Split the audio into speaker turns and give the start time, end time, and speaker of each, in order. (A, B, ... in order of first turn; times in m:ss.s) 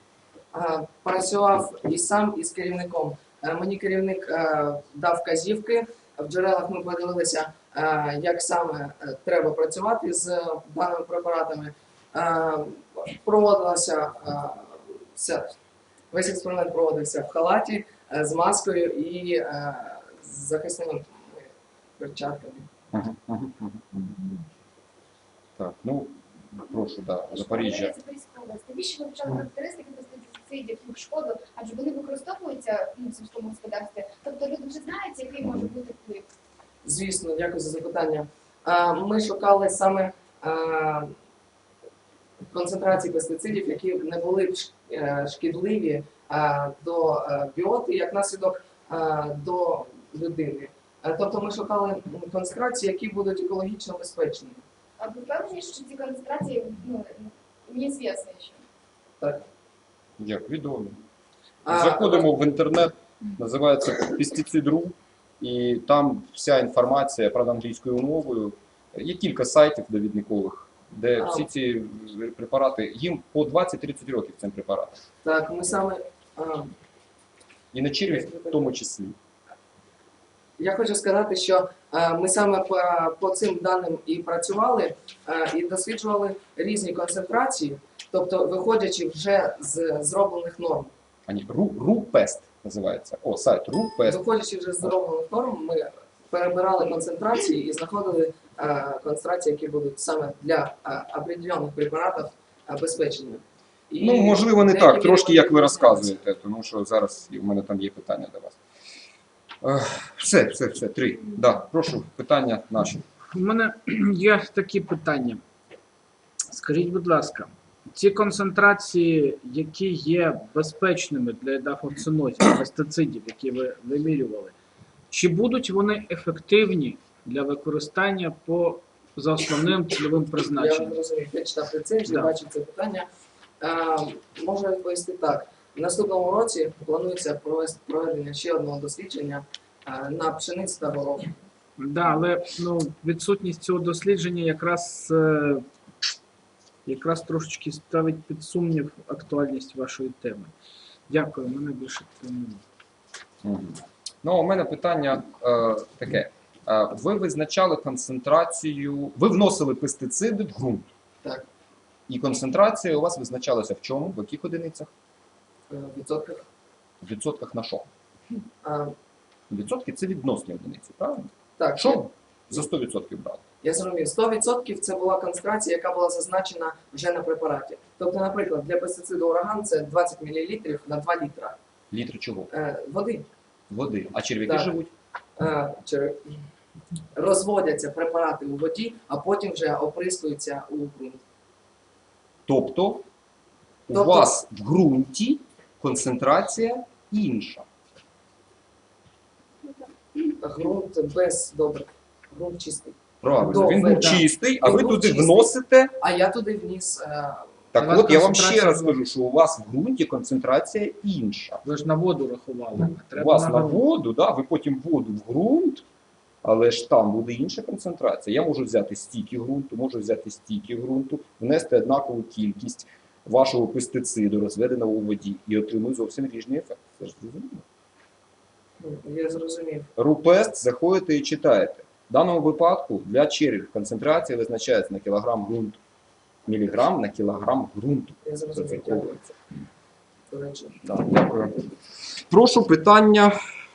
0:00.5-0:15.5 A
0:16.1-0:22.7 A
0:22.9-0:24.3 B
0:25.6-0:28.0 B
0:27.3-0:36.3 C
0:36.8-0:41.2 A
0:42.5-0:54.6 A
0:55.0-0:58.6 C
0:59.2-0:59.5 A
1:00.2-1:01.0 B
1:01.6-1:02.3 A
1:01.7-1:15.0 B
1:11.2-1:11.5 A
1:15.2-1:16.8 A
1:17.7-1:19.2 B
1:18.0-1:18.7 A
1:20.6-1:30.9 A
1:31.3-1:34.2 B
1:34.0-1:46.2 A
1:44.0-1:48.6 B
1:49.6-1:53.0 B
1:53.3-1:55.4 D
1:56.5-2:04.5 D
2:05.1-2:11.0 D
2:10.5-2:13.1 A
2:12.1-2:12.3 D
2:13.6-2:21.3 A
2:21.8-2:25.7 D
2:26.9-2:30.5 D
2:31.1-2:32.6 D
2:33.4-2:40.9 B
2:42.1-2:44.9 B
2:45.7-2:46.4 A
2:47.0-2:47.9 B
2:48.6-2:48.9 A
2:49.5-2:53.4 B
2:51.6-2:52.0 A
2:53.6-3:01.6 A
3:01.9-3:02.5 B
3:02.5-3:03.3 A
3:03.7-3:04.9 B
3:04.5-3:04.7 A
3:05.4-3:06.4 A
3:07.1-3:11.2 A
3:12.5-3:13.0 B
3:13.9-3:17.7 B
3:13.9-3:14.3 A
3:20.4-3:27.6 A
3:23.2-3:26.0 B
3:23.5-3:24.2 D
3:27.7-3:31.6 B
3:27.8-3:29.0 D
3:31.6-3:33.8 D
3:33.2-3:35.8 B
3:36.4-3:47.6 B
3:48.8-3:49.9 A
3:50.0-3:55.8 B
3:56.5-3:59.2 B
3:58.2-3:59.3 A
4:00.3-4:00.8 A
4:00.8-4:01.6 B
4:02.3-4:03.4 B